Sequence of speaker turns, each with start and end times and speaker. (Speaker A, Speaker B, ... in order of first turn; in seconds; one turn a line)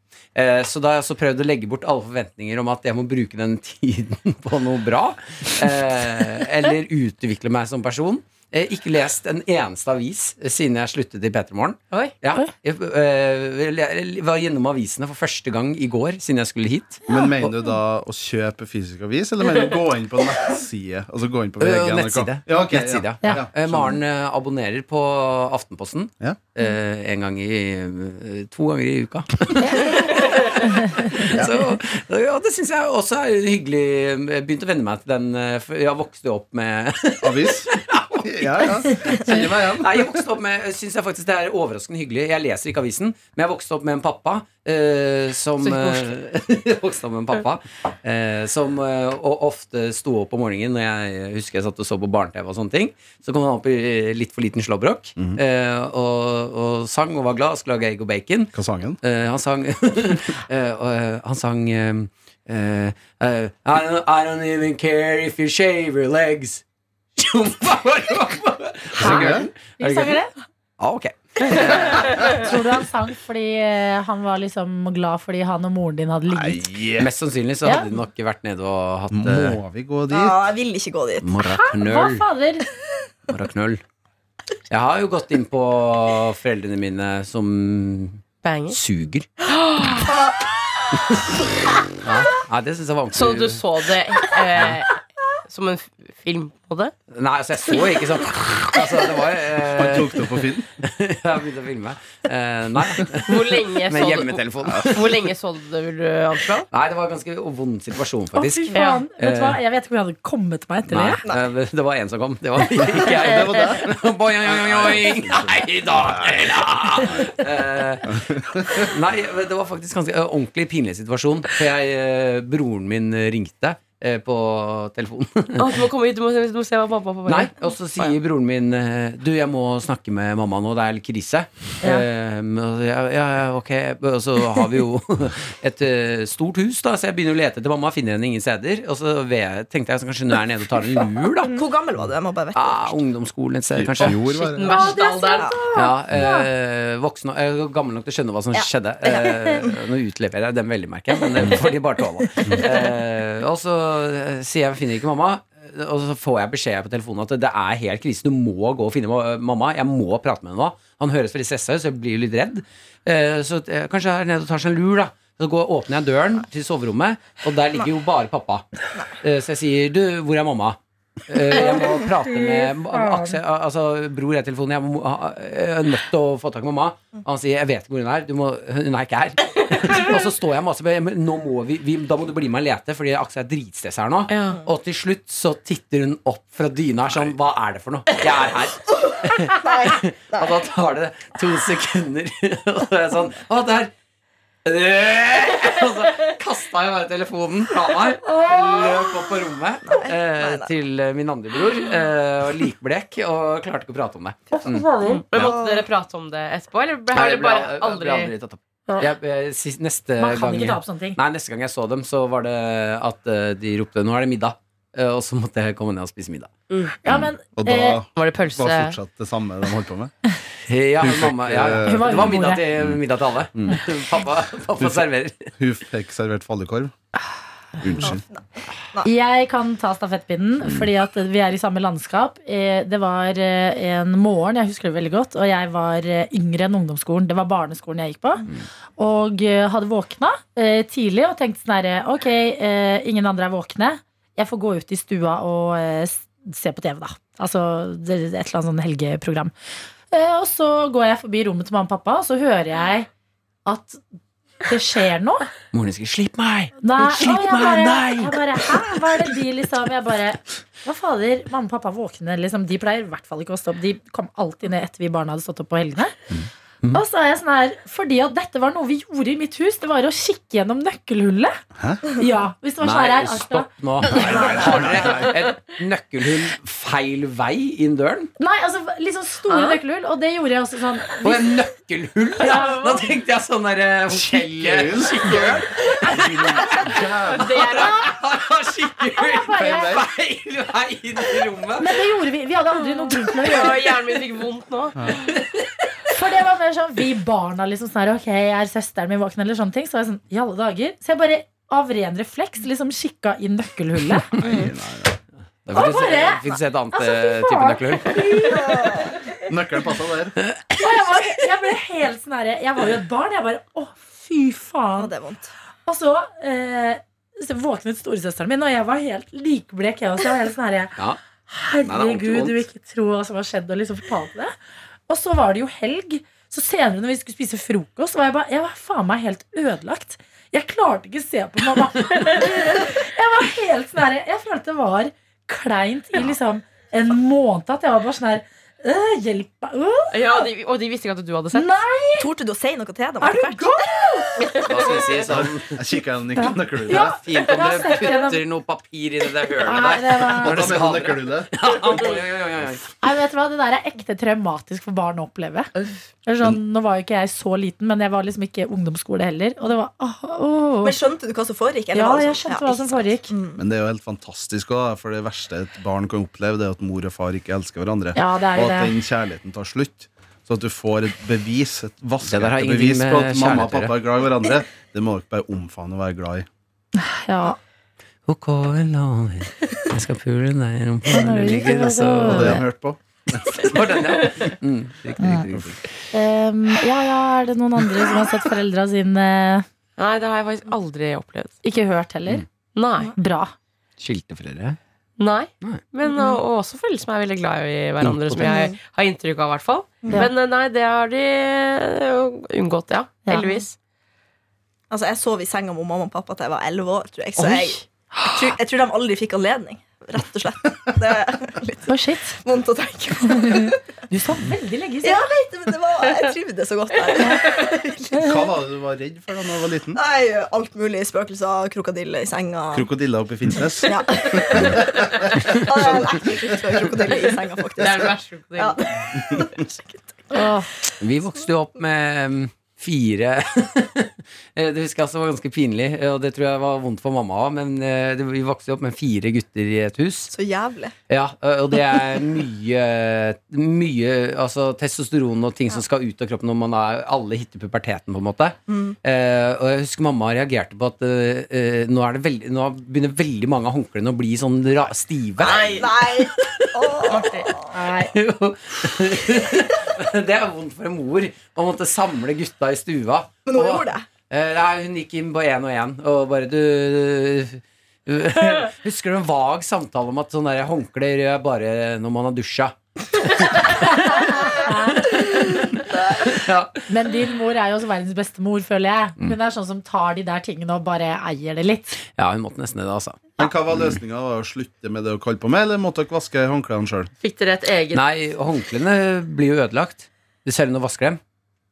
Speaker A: 0.3-17.5
Speaker B: 17.1-24.0
Speaker A: 21.6-66.6
Speaker C: 29.6-31.1
Speaker B: 31.3-31.7
Speaker B: 37.2-40.2
Speaker D: 45.6-46.1
Speaker B: 58.5-59.0
Speaker A: 67.2-70.2
Speaker B: 69.0-69.5
Speaker C: 69.0-70.3
Speaker A: 70.8-72.5
Speaker C: 72.3-76.7
Speaker B: 76.3-77.1
Speaker A: 77.0-79.6
Speaker C: 77.7-78.0
Speaker B: 79.1-80.4
Speaker E: 80.1-81.3
Speaker A: 81.2-82.2
Speaker C: 81.5-82.7
Speaker A: 83.3-83.8
Speaker A: 84.7-89.3
Speaker D: 88.4-88.8
Speaker D: 89.7-90.0
Speaker E: 90.1-90.4
Speaker A: 92.0-93.6
Speaker D: 93.1-96.9
Speaker A: 97.1-105.3
Speaker B: 99.7-100.7
Speaker D: 103.3-106.7
Speaker A: 106.7-109.6
Speaker C: 108.3-111.2
Speaker D: 108.7-109.0
Speaker A: 110.9-125.8
Speaker B: 112.8-117.3
Speaker B: 118.1-118.9
Speaker D: 125.6-128.2
Speaker A: 127.3-141.6
Speaker E: 141.4-143.0
Speaker A: 142.5-144.2
Speaker B: 143.7-144.7
Speaker D: 144.1-145.6
Speaker C: 144.6-146.5
Speaker A: 145.7-168.7
Speaker E: 148.5-149.8
Speaker A: 169.2-193.9
Speaker C: 172.8-173.4
Speaker D: 184.3-184.6
Speaker E: 189.1-190.6
Speaker A: 194.7-205.6
Speaker E: 199.9-200.7
Speaker C: 204.5-205.2
Speaker D: 205.0-208.3
Speaker E: 205.4-205.9
Speaker A: 207.1-216.5
Speaker C: 210.2-211.2
Speaker D: 216.7-216.9
Speaker C: 217.0-218.0
Speaker B: 217.6-220.1
Speaker D: 218.2-219.0
Speaker A: 220.7-225.5
Speaker B: 221.0-223.0
Speaker C: 221.8-222.6
Speaker B: 223.6-223.8
Speaker B: 224.8-225.1
Speaker B: 225.6-226.9
Speaker B: 227.8-228.2
Speaker E: 228.0-229.1
Speaker C: 229.0-238.5
Speaker C: 239.0-249.5
Speaker C: 250.1-253.1
Speaker C: 253.7-254.0
Speaker C: 254.7-255.5
Speaker A: 255.7-259.0
Speaker C: 256.8-266.2
Speaker C: 266.9-271.6
Speaker B: 271.8-272.0
Speaker C: 272.1-273.7
Speaker A: 272.8-278.3
Speaker B: 274.0-275.4
Speaker C: 274.6-274.8
Speaker C: 278.4-281.5
Speaker D: 279.5-279.8
Speaker A: 281.2-292.0
Speaker C: 282.4-282.7
Speaker D: 282.5-283.0
Speaker B: 284.1-287.5
Speaker D: 287.3-288.1
Speaker C: 289.1-290.0
Speaker B: 289.6-290.1
Speaker C: 291.8-293.9
Speaker D: 293.4-295.1
Speaker C: 296.1-304.3
Speaker A: 304.4-304.6
Speaker B: 304.4-305.2
Speaker A: 305.7-308.3
Speaker C: 305.7-309.1
Speaker E: 308.5-309.0
Speaker B: 309.5-310.4
Speaker C: 310.8-315.1
Speaker E: 315.0-315.5
Speaker C: 315.9-320.9
Speaker C: 321.5-324.6
Speaker A: 321.8-322.6
Speaker C: 325.1-340.4
Speaker D: 340.1-341.7
Speaker C: 341.5-342.3
Speaker E: 342.2-343.9
Speaker C: 343.2-344.4
Speaker A: 344.7-345.8
Speaker B: 345.3-347.2
Speaker C: 346.4-348.4
Speaker A: 346.9-352.9
Speaker C: 349.6-350.7
Speaker B: 350.3-352.1
Speaker C: 353.0-355.7
Speaker C: 356.3-361.0
Speaker E: 360.8-363.6
Speaker C: 361.9-363.3
Speaker B: 363.6-376.5
Speaker C: 368.2-368.9
Speaker A: 372.3-373.9
Speaker C: 377.0-377.6
Speaker A: 378.3-382.6
Speaker C: 381.1-382.6
Speaker B: 382.3-383.8
Speaker A: 383.6-385.9
Speaker C: 385.2-385.5
Speaker C: 386.1-389.7
Speaker D: 390.0-391.5
Speaker C: 391.6-392.4
Speaker D: 392.8-393.1
Speaker C: 393.2-393.5
Speaker A: 394.0-394.8
Speaker D: 395.2-403.8
Speaker A: 398.0-398.5
Speaker E: 398.4-398.8
Speaker E: 400.0-400.3
Speaker C: 403.3-403.6
Speaker E: 404.9-413.8
Speaker D: 407.4-407.8
Speaker C: 408.1-408.4
Speaker C: 411.9-412.4
Speaker C: 413.3-415.3
Speaker E: 415.0-418.4
Speaker B: 418.2-420.0
Speaker E: 419.9-422.9
Speaker B: 422.7-426.4
Speaker E: 423.8-430.5
Speaker D: 427.8-428.8
Speaker C: 430.3-430.7
Speaker A: 431.0-440.3
Speaker E: 440.3-440.9
Speaker A: 441.1-455.9
Speaker E: 448.7-449.0
Speaker E: 455.4-457.6
Speaker D: 455.5-455.9
Speaker D: 457.1-457.5
Speaker C: 457.7-458.1
Speaker A: 458.1-473.4
Speaker E: 463.5-464.1
Speaker C: 473.7-475.1
Speaker A: 475.1-476.8
Speaker C: 476.9-482.0
Speaker A: 482.2-483.9
Speaker B: 483.4-487.1
Speaker D: 487.2-488.0
Speaker A: 487.9-491.2